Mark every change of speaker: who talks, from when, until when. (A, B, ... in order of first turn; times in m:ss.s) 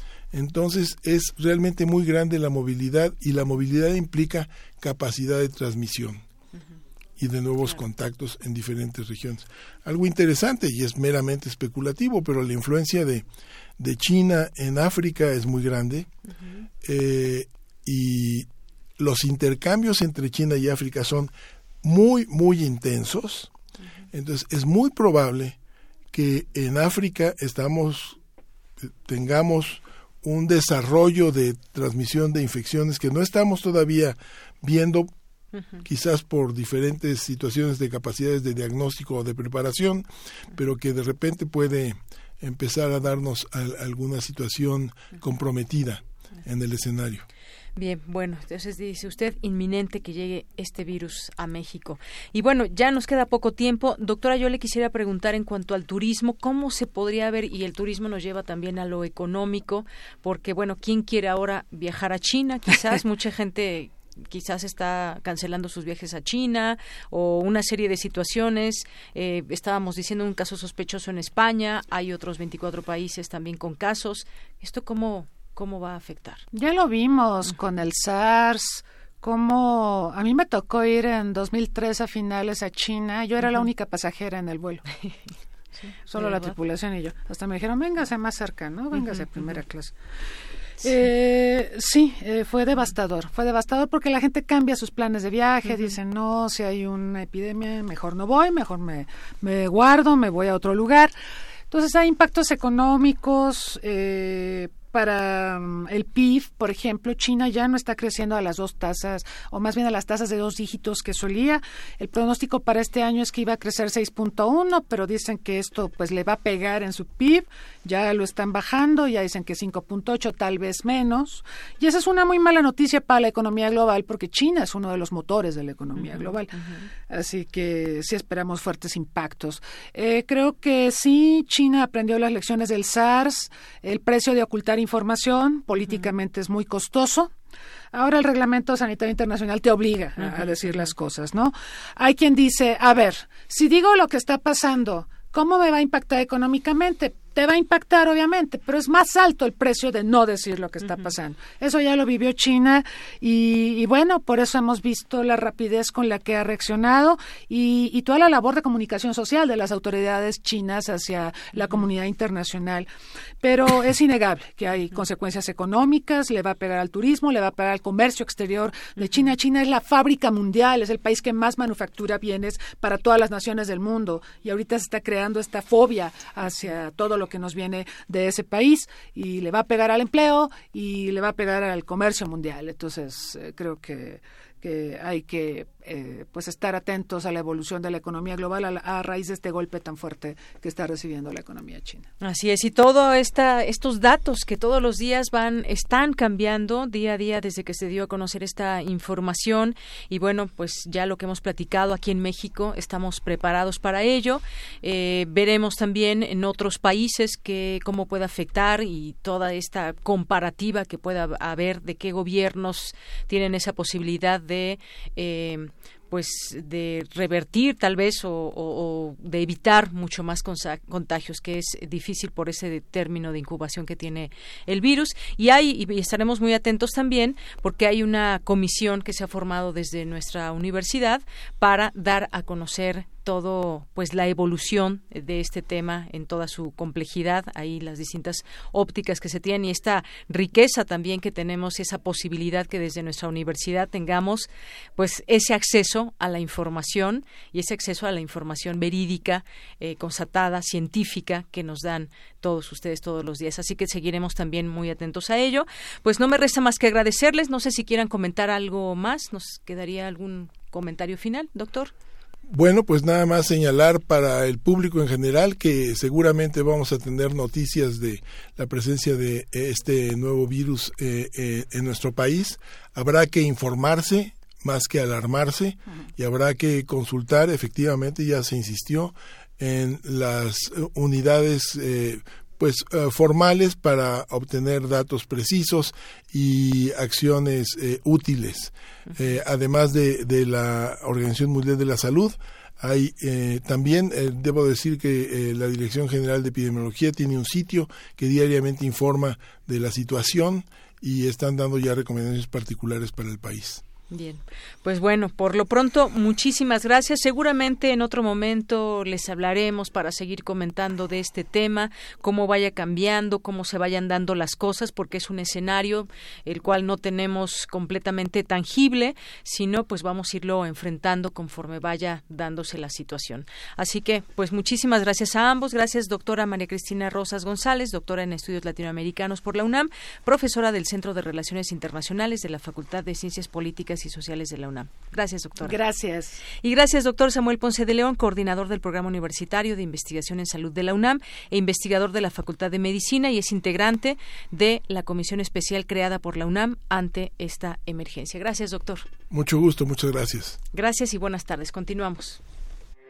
0:00.3-0:06.2 A
0:07.2-0:13.2 A
0:13.8-0:16.1 A
0:16.8-0:18.5 A
0:19.0-0:23.5 A
0:24.1-0:25.6 A
0:26.1-0:28.2 A
0:29.0-0:35.1 A
0:35.8-0:47.2 A
0:47.8-1:16.4 B
1:16.5-1:24.8 C
1:25.8-1:26.6 B
1:26.1-1:29.9 C
1:29.0-1:29.5 B
1:30.8-1:41.1 C
1:41.7-2:06.5 C
2:06.0-2:06.8 B
2:07.1-2:17.3 C
2:15.8-2:16.1 B
2:17.9-2:42.9 C
2:20.2-2:20.9 B
2:43.4-3:12.1 C
3:12.2-4:21.9 B
4:22.5-5:03.8 A
5:04.1-5:35.8 B
5:35.6-5:36.4 C
5:36.6-5:49.1 B
5:49.3-5:50.6 A
5:50.7-5:52.4 B